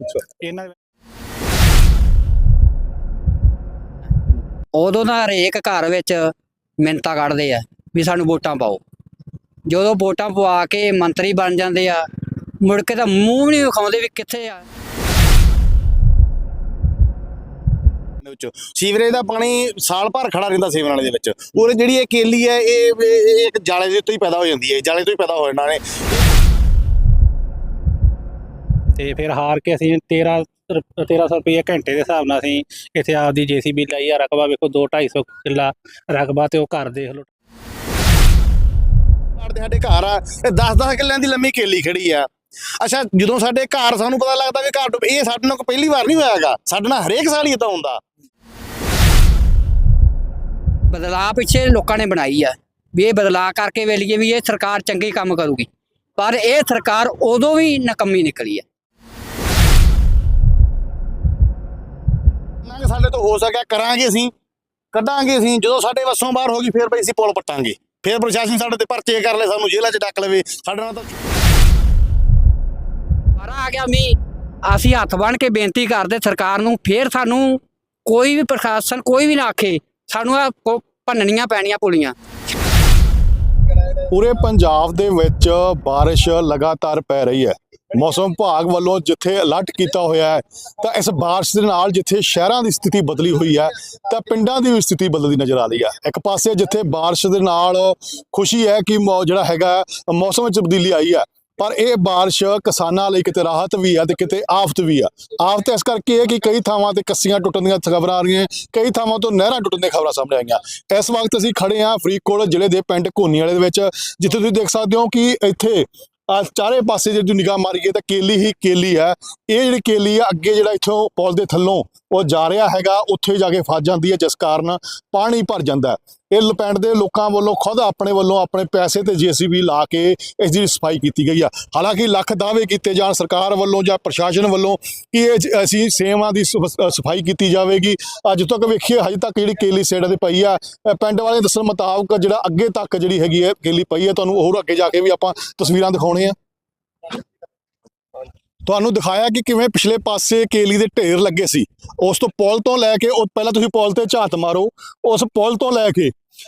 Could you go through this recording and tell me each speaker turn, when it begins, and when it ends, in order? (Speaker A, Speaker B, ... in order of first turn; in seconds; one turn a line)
Speaker A: 0.4-0.7
Speaker B: 4.7-8.8
Speaker B: 9.7-12.1
Speaker B: 12.6-14.6
Speaker C: 18.2-26.2
Speaker A: 28.9-37.3
Speaker C: 39.4-42.3
Speaker C: 42.8-48.0
Speaker B: 50.9-58.6
Speaker C: 62.6-64.3
Speaker C: 64.9-71.2
Speaker B: 73.4-82.2
Speaker D: 84.1-146.3
Speaker D: 148.6-156.1